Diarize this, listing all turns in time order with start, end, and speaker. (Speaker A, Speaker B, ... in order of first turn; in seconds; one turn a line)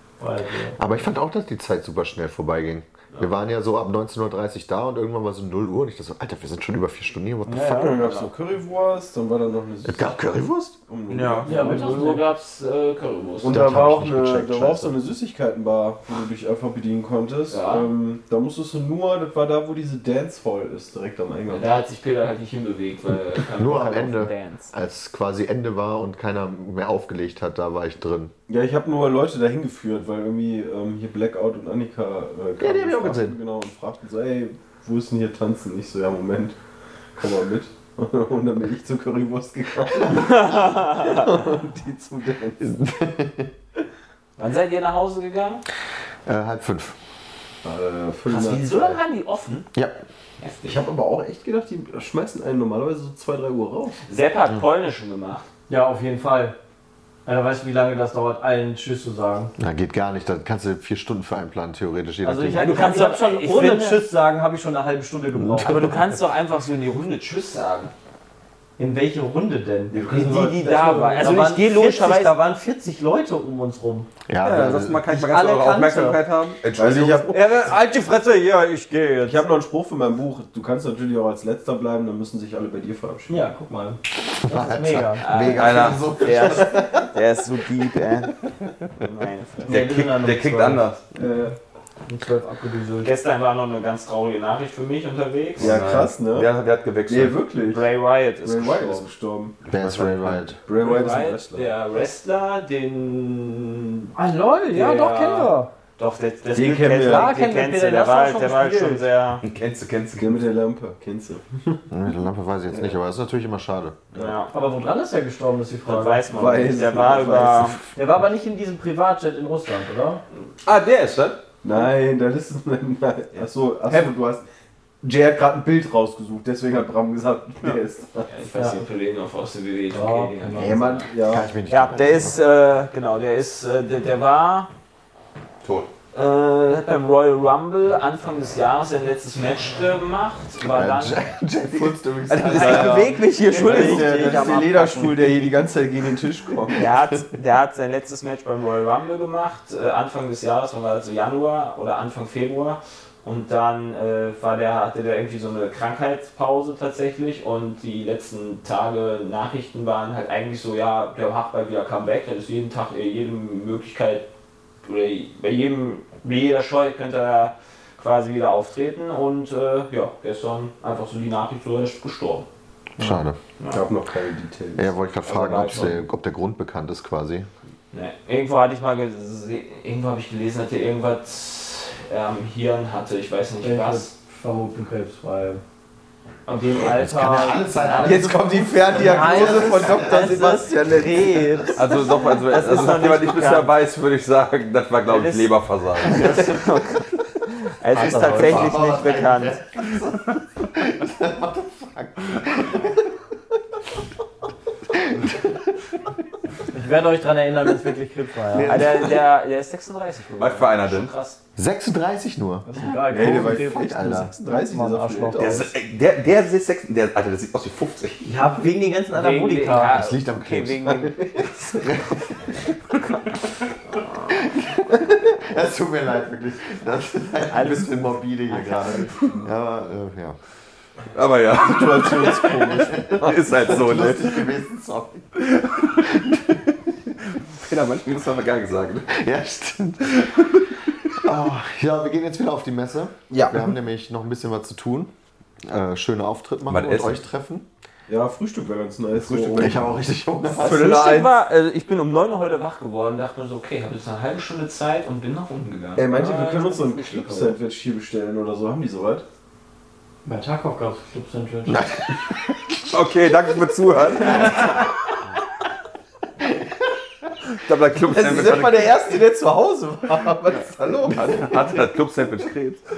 Speaker A: 0.2-0.8
Speaker B: 0.8-8.0
Speaker A: 7.5-8.1
Speaker C: 7.7-10.3
Speaker D: 7.9-8.3
Speaker B: 9.8-10.8
Speaker C: 10.8-12.2
Speaker E: 11.1-11.5
Speaker A: 11.4-12.2
Speaker D: 11.5-13.6
Speaker C: 13.4-21.7
Speaker B: 13.4-14.9
Speaker D: 17.5-17.9
Speaker D: 21.5-24.7
Speaker B: 23.5-28.3
Speaker C: 28.5-36.6
Speaker B: 32.6-33.4
Speaker C: 37.1-42.7
Speaker D: 40.0-41.3
Speaker B: 42.6-43.5
Speaker D: 44.4-45.6
Speaker B: 46.2-46.9
Speaker C: 47.6-49.0
Speaker D: 48.3-49.7
Speaker B: 49.7-50.0
Speaker D: 50.4-50.8
Speaker C: 50.6-54.0
Speaker D: 54.1-55.5
Speaker A: 55.7-56.5
Speaker A: 57.2-59.5
Speaker B: 59.6-62.8
Speaker A: 62.2-65.9
Speaker D: 62.5-64.0
Speaker B: 65.4-66.0
Speaker D: 65.6-67.9
Speaker A: 68.8-74.1
Speaker C: 69.9-70.5
Speaker D: 70.1-72.3
Speaker B: 74.3-75.0
Speaker E: 74.4-77.3
Speaker A: 75.1-76.2
Speaker C: 76.7-77.7
Speaker A: 77.3-79.5
Speaker C: 79.2-83.4
Speaker A: 83.3-85.2
Speaker B: 84.3-87.0
Speaker D: 85.2-88.3
Speaker E: 85.5-86.1
Speaker C: 86.5-87.0
Speaker D: 88.9-89.8
Speaker A: 89.7-90.8
Speaker E: 89.7-91.0
Speaker C: 91.1-91.5
Speaker A: 92.1-93.1
Speaker D: 93.0-95.7
Speaker E: 95.6-97.4
Speaker C: 95.6-96.5
Speaker C: 97.1-97.9
Speaker D: 97.7-99.1
Speaker C: 98.4-99.6
Speaker B: 99.7-100.6
Speaker E: 99.8-100.4
Speaker C: 100.6-101.7
Speaker D: 100.7-104.1
Speaker A: 104.1-105.7
Speaker D: 104.7-109.4
Speaker C: 106.5-107.3
Speaker A: 106.9-109.1
Speaker E: 109.4-110.4
Speaker C: 110.2-111.8
Speaker B: 111.9-114.0
Speaker D: 114.1-114.5
Speaker A: 114.5-116.3
Speaker D: 115.8-117.8
Speaker C: 116.3-117.8
Speaker A: 117.9-120.2
Speaker C: 120.6-124.4
Speaker C: 125.0-128.3
Speaker D: 128.3-131.1
Speaker A: 128.5-128.8
Speaker A: 129.9-130.9
Speaker C: 130.5-131.5
Speaker B: 131.2-132.4
Speaker D: 131.7-134.7
Speaker E: 135.6-135.9
Speaker D: 136.1-141.2
Speaker B: 140.6-143.2
Speaker D: 142.3-144.6
Speaker C: 142.5-146.9
Speaker A: 143.4-145.5
Speaker D: 146.7-164.3
Speaker D: 164.8-172.5
Speaker B: 173.0-173.4
Speaker D: 173.6-173.8
Speaker C: 173.7-175.9
Speaker B: 174.8-177.5
Speaker D: 175.2-176.0
Speaker D: 177.9-184.1
Speaker A: 183.6-185.6
Speaker D: 186.5-188.2
Speaker A: 186.5-187.9
Speaker B: 186.8-190.6
Speaker C: 188.0-191.7
Speaker A: 188.9-192.2
Speaker E: 191.7-196.4
Speaker D: 192.5-193.7
Speaker D: 195.1-199.6
Speaker A: 197.9-198.8
Speaker B: 198.2-203.0
Speaker A: 206.7-208.8
Speaker B: 208.5-209.2
Speaker D: 208.6-211.4
Speaker E: 210.4-211.1
Speaker B: 211.6-212.7
Speaker A: 212.6-215.7
Speaker C: 213.0-215.7
Speaker B: 213.3-214.3
Speaker E: 215.4-218.3
Speaker A: 218.2-219.9
Speaker D: 219.1-222.2
Speaker B: 219.9-220.9
Speaker C: 220.8-221.9
Speaker D: 223.9-224.4
Speaker B: 224.3-230.4
Speaker D: 227.5-227.9
Speaker E: 229.1-229.4
Speaker E: 231.1-234.5
Speaker C: 231.5-233.7
Speaker B: 232.7-235.3
Speaker E: 235.3-236.6
Speaker E: 237.3-239.1
Speaker B: 239.1-240.2
Speaker E: 240.1-240.9
Speaker B: 241.2-245.1
Speaker C: 243.3-243.7
Speaker B: 245.6-247.7
Speaker E: 246.7-247.2
Speaker C: 248.1-251.3
Speaker E: 249.1-249.8
Speaker B: 249.6-250.9
Speaker D: 250.6-257.6
Speaker C: 255.9-259.2
Speaker A: 260.2-261.9
Speaker B: 261.7-262.8
Speaker E: 262.8-264.8
Speaker B: 266.4-266.9
Speaker E: 267.6-269.0
Speaker C: 268.0-271.9
Speaker E: 270.9-272.8